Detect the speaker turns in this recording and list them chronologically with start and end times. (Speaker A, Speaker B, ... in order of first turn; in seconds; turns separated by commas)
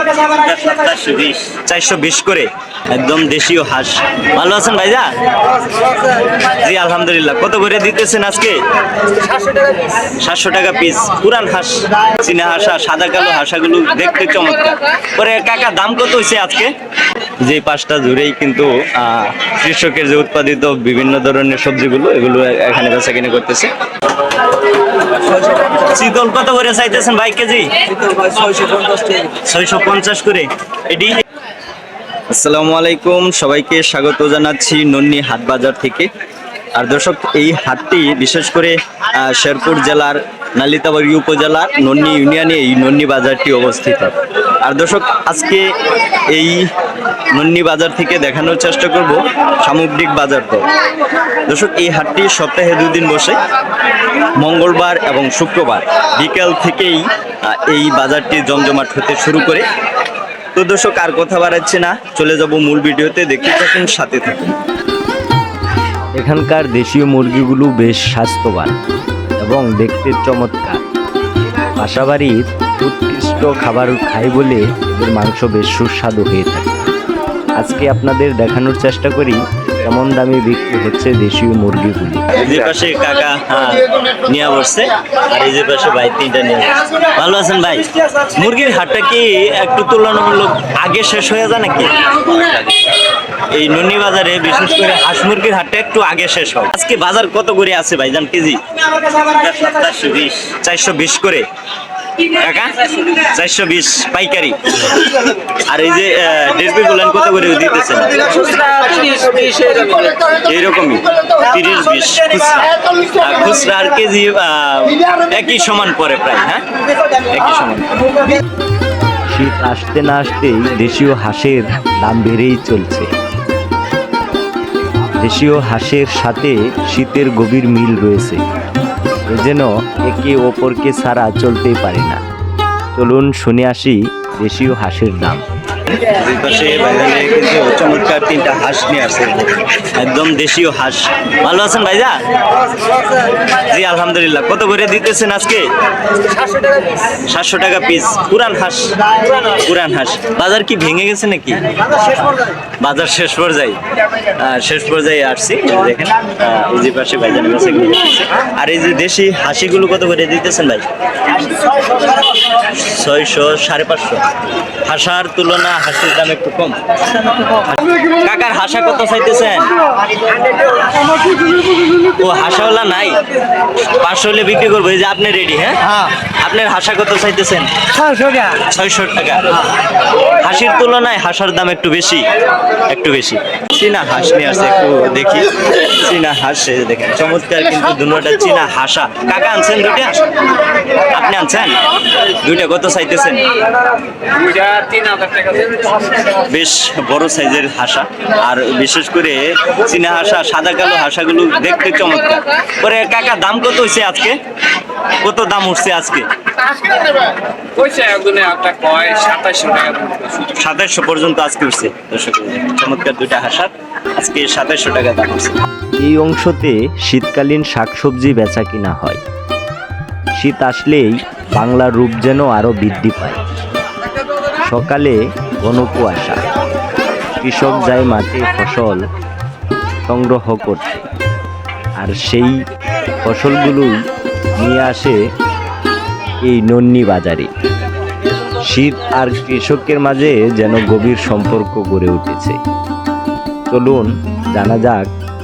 Speaker A: 0.2-5.1, Speaker A: 6.4-8.6, Speaker A: 10.0-16.7, Speaker A: 17.4-23.7, Speaker A: 25.2-27.7, Speaker B: 28.2-29.1, Speaker A: 29.2-31.2, Speaker A: 32.3-36.1, Speaker A: 36.7-45.7, Speaker A: 46.3-46.6, Speaker A: 47.3-50.7, Speaker A: 51.5-53.4, Speaker A: 54.4-59.6, Speaker A: 60.5-64.5, Speaker C: 66.2-68.8, Speaker C: 69.4-70.8, Speaker C: 71.8-76.7, Speaker C: 77.6-82.8, Speaker A: 82.4-92.1, Speaker A: 93.5-98.6, Speaker A: 99.2-101.4, Speaker A: 102.3-104.9, Speaker A: 105.7-108.6, Speaker B: 108.5-110.2, Speaker A: 110.3-116.6, Speaker A: 117.2-118.0, Speaker C: 119.3-123.1, Speaker C: 125.2-128.4, Speaker C: 129.3-132.2, Speaker C: 132.9-135.4, Speaker A: 135.9-142.2, Speaker A: 143.5-145.7, Speaker A: 147.1-151.6, Speaker A: 152.8-153.8, Speaker A: 154.4-160.8, Speaker A: 162.6-164.2, Speaker A: 164.8-166.8, Speaker A: 167.7-169.7, Speaker A: 172.0-173.2, Speaker A: 174.0-177.7, Speaker A: 178.5-179.6, Speaker A: 180.4-182.2, Speaker A: 182.9-190.2, Speaker A: 191.0-191.8, Speaker A: 192.4-193.5, Speaker B: 194.3-196.2, Speaker A: 196.3-204.4, Speaker A: 205.2-206.2, Speaker B: 206.8-210.4, Speaker A: 210.4-215.5, Speaker C: 216.0-219.2, Speaker C: 220.4-223.4, Speaker C: 224.7-226.4, Speaker C: 227.4-229.1, Speaker C: 230.0-231.1, Speaker C: 232.0-232.6, Speaker C: 233.2-234.0, Speaker C: 234.6-235.2, Speaker C: 236.4-237.5, Speaker C: 238.6-242.6, Speaker C: 243.7-245.1